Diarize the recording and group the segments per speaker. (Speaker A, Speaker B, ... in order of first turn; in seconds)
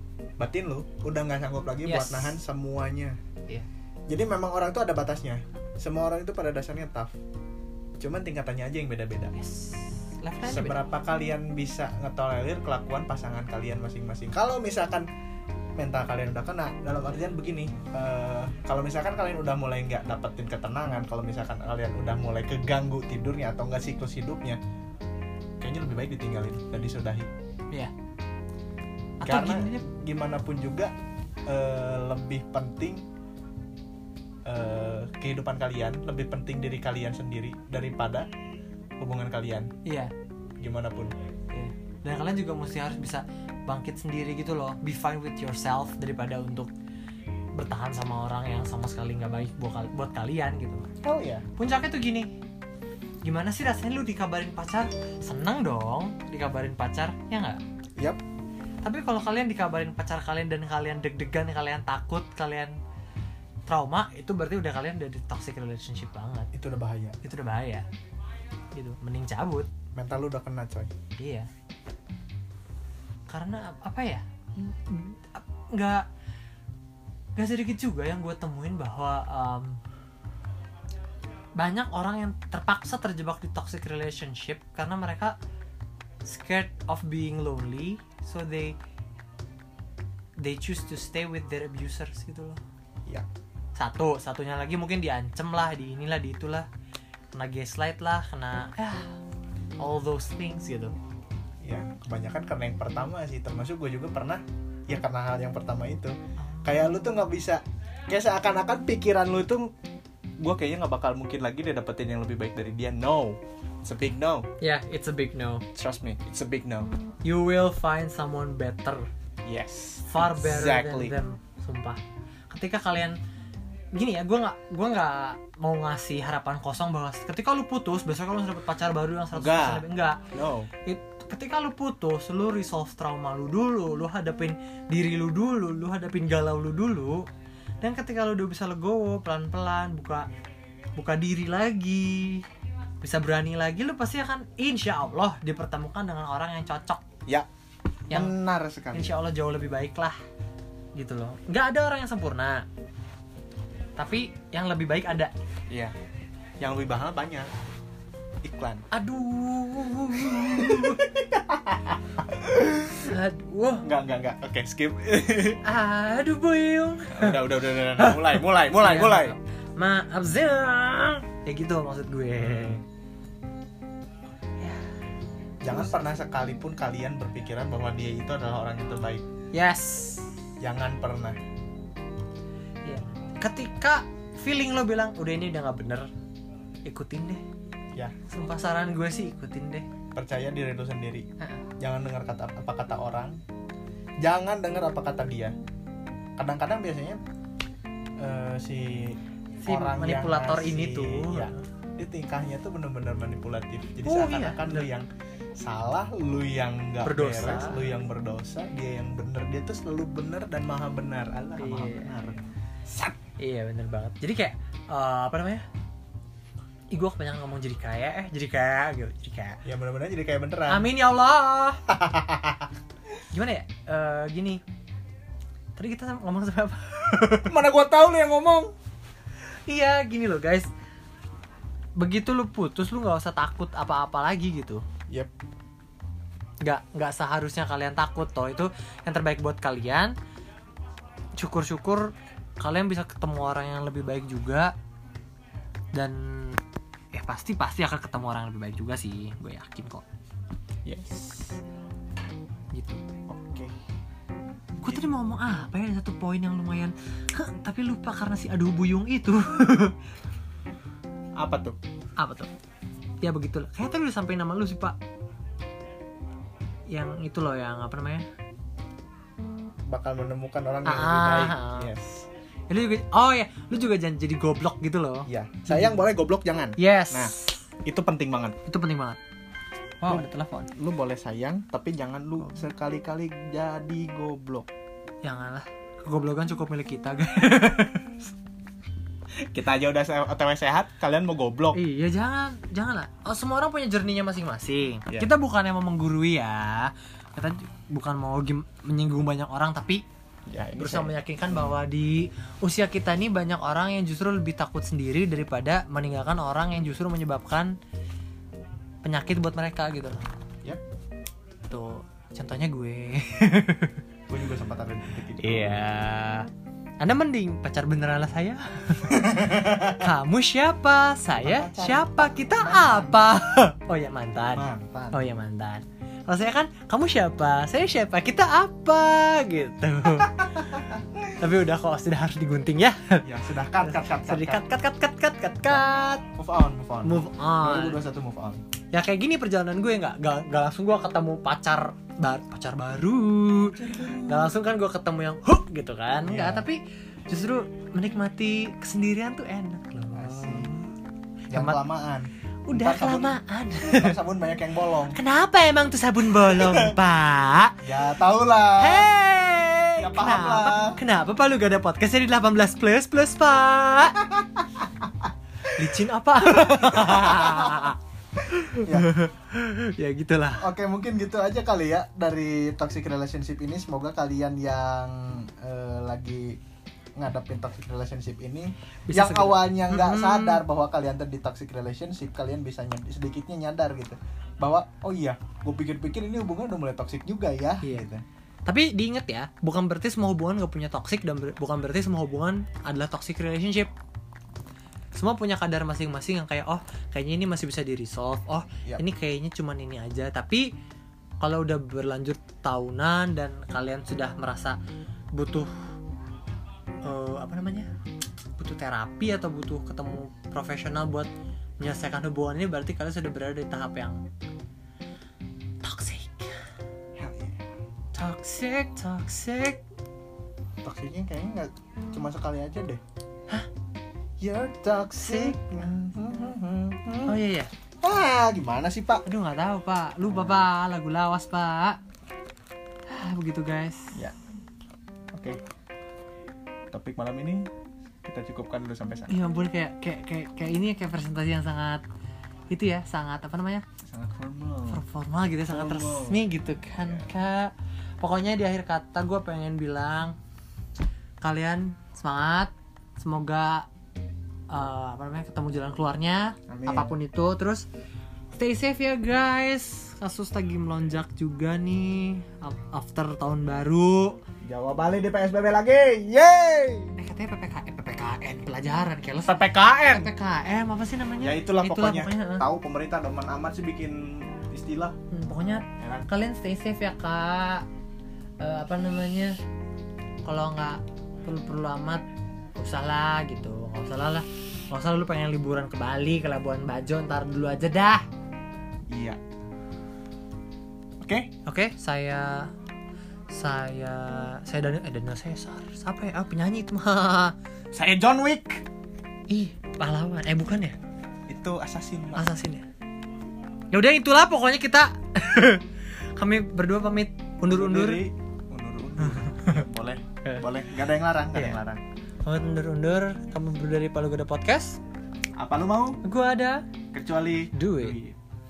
Speaker A: 0.4-3.1, 4.1-7.1, 8.0-9.3, 10.4-15.1, 15.8-24.6, 25.6-27.3, 29.2-30.9, 31.5-33.0, 34.5-38.3, 39.0-39.7, 40.6-41.1, 51.0-51.4, 66.5-67.2, 69.9-70.9, 101.6-109.7, 110.4-114.5, 115.7-116.9, 119.5-121.2, 129.3-130.7, 148.1-149.1, 156.6-157.5, 158.4-158.8, 160.3-163.2, 163.8-165.6, 167.1-169.4, 172.4-172.8, 175.6-179.2, 180.6-181.4, 190.2-191.2, 191.8-193.4, 194.2-195.5, 196.4-197.2, 198.2-205.1, 205.6-213.1, 219.6-220.9, 221.9-222.7, 227.4-228.7, 250.8-251.6, 253.3-253.7, 254.8-255.1, 261.4-261.8, 269.9-272.3, 275.3-277.3, 277.8-278.6, 280.1-284.7, 289.5-291.8, 300.5-301.8, 314.3-315.8, 319.1-320.0, 321.4-323.2, 324.5-325.3, 330.2-331.3, 333.2-334.6, 335.7-338.6, 343.7-344.6, 346.2-346.7, 350.1-350.7, 351.5-355.2, 356.3-356.9, 357.8-359.1, 360.0-361.0, 364.2-364.7, 366.4-367.9, 368.8-369.1, 370.6-376.6, 377.2-388.2, 417.1-417.6, 420.8-423.0, 424.4-427.4, 428.0-429.2, 430.3-430.7, 436.9-437.6, 438.2-439.4, 444.1-445.0, 445.7-446.4, 447.0-447.3, 456.7-457.1, 464.6-467.1, 469.4-470.3, 471.4-475.1, 476.0-476.3, 489.1-489.4, 491.2-491.5, 497.9-498.8, 501.5-502.5, 507.7-512.0, 515.6-516.2, 517.1-518.4
Speaker B: 1.8-2.4, 9.3-10.8, 29.2-29.8, 39.8-40.1, 41.5-46.7, 47.5-50.8, 51.6-52.3, 53.2-57.6, 58.8-62.7, 63.7-66.5, 67.2-67.8, 68.7-69.7, 71.2-71.5, 73.3-76.0, 77.4-79.8, 81.6-85.3, 86.2-88.8, 90.4-92.6, 93.8-96.7, 97.3-99.1, 99.8-100.9, 106.5-106.9, 114.6-115.6, 117.2-119.1, 120.1-123.2, 123.9-130.2, 130.8-137.3, 137.8-140.2, 141.0-142.4, 143.0-147.0, 148.9-150.2, 150.9-152.6, 154.0-155.3, 158.9-161.0, 163.0-163.8, 165.6-172.8, 179.5-180.3, 182.8-186.1, 186.8-187.4, 188.3-189.8, 199.6-201.6, 204.1-204.9, 207.0-207.9, 211.6-212.1, 213.4-215.6, 216.9-219.6, 220.7-221.8, 223.3-224.6, 225.8-227.6, 229.7-230.7, 232.0-234.8, 236.6-240.1, 241.4-244.7, 245.9-246.6, 247.1-250.0, 252.7-253.0, 254.8-259.9, 262.2-262.5, 263.2-264.9, 266.9-268.2, 270.9-271.9, 272.7-276.1, 276.8-277.5, 278.6-279.2, 280.0-280.7, 285.2-288.3, 291.7-300.0, 300.8-307.7, 309.0-310.2, 311.7-314.0, 315.4-316.5, 317.0-330.4, 331.4-333.2, 333.8-336.2, 337.0-338.0, 338.9-350.9, 351.5-351.8, 352.7-354.1, 355.1-357.8, 358.8-364.1, 365.7-370.7, 379.1-380.6, 387.8-388.1, 388.6-393.9, 395.1-400.7, 401.4-404.8, 405.3-405.7, 407.0-407.9, 408.6-411.3, 411.8-414.2, 415.8-416.5, 418.1-419.8, 425.2-425.6, 427.2-427.7, 429.2-432.0, 433.1-434.1, 439.3-442.0, 442.7-443.8, 444.9-450.4, 451.4-453.9, 454.7-457.9, 458.6-464.4, 467.2-472.6, 475.3-477.8, 478.6-479.6, 480.4-482.2, 482.8-488.2, 491.6-492.7, 493.5-497.5, 499.5-500.9, 502.4-502.8, 503.9-505.8, 506.4-508.2, 509.2-509.9, 511.5-511.8, 512.4-515.0, 516.2-516.8, 517.7-518.2